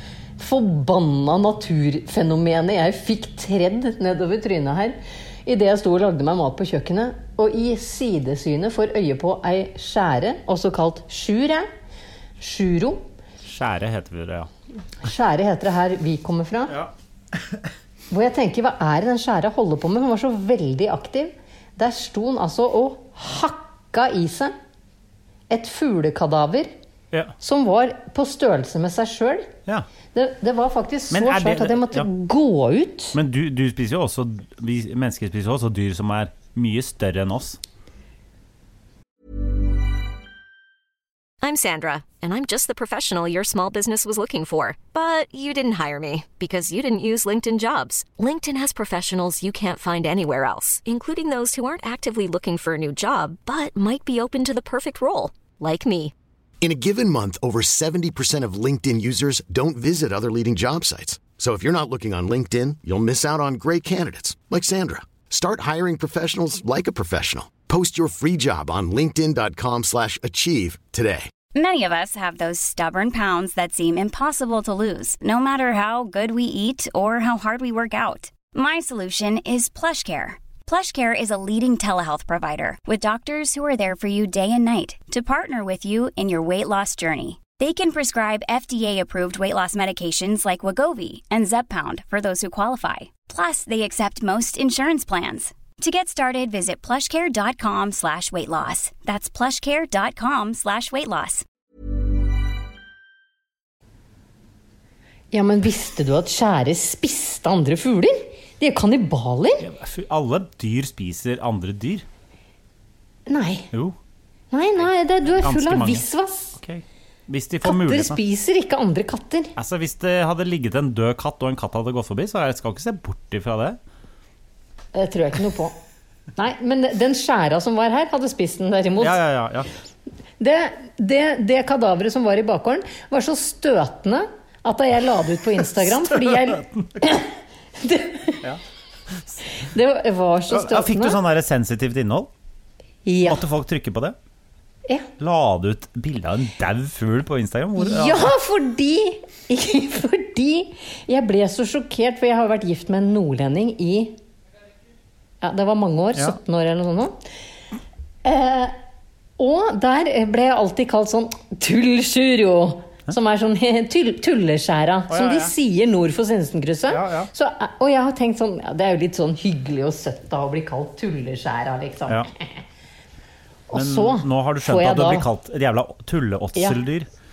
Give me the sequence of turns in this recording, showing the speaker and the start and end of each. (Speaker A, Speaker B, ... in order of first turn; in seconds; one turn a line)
Speaker A: 0.4-11.7
Speaker A: 12.4-13.0
Speaker B: 13.4-14.5
Speaker A: 15.0-16.8
Speaker B: 16.7-17.6
Speaker A: 18.1-24.5
Speaker A: 25.5-26.7
Speaker A: 27.4-29.5
Speaker A: 30.1-33.2
Speaker B: 31.1-32.1
Speaker B: 33.1-37.6
Speaker C: 41.4-56.1
Speaker D: 56.6-71.3
Speaker E: 71.5-101.4
Speaker A: 105.3-109.7
Speaker B: 109.6-112.0
Speaker A: 113.3-113.7
Speaker A: 114.5-116.6
Speaker B: 115.3-116.0
Speaker B: 116.5-118.2
Speaker A: 117.6-119.5
Speaker B: 119.5-123.8
Speaker A: 124.9-125.8
Speaker A: 126.3-129.2
Speaker B: 129.0-129.7
Speaker A: 130.4-138.5
Speaker B: 135.8-136.6
Speaker A: 139.5-141.2
Speaker B: 140.5-142.3
Speaker A: 143.0-143.4
Speaker B: 143.2-144.2
Speaker B: 145.2-148.3
Speaker A: 147.8-154.2
Speaker A: 155.4-157.2
Speaker A: 158.2-158.7
Speaker A: 159.4-172.6
Speaker B: 165.1-165.5
Speaker B: 166.9-167.3
Speaker A: 173.7-175.3
Speaker B: 173.7-177.1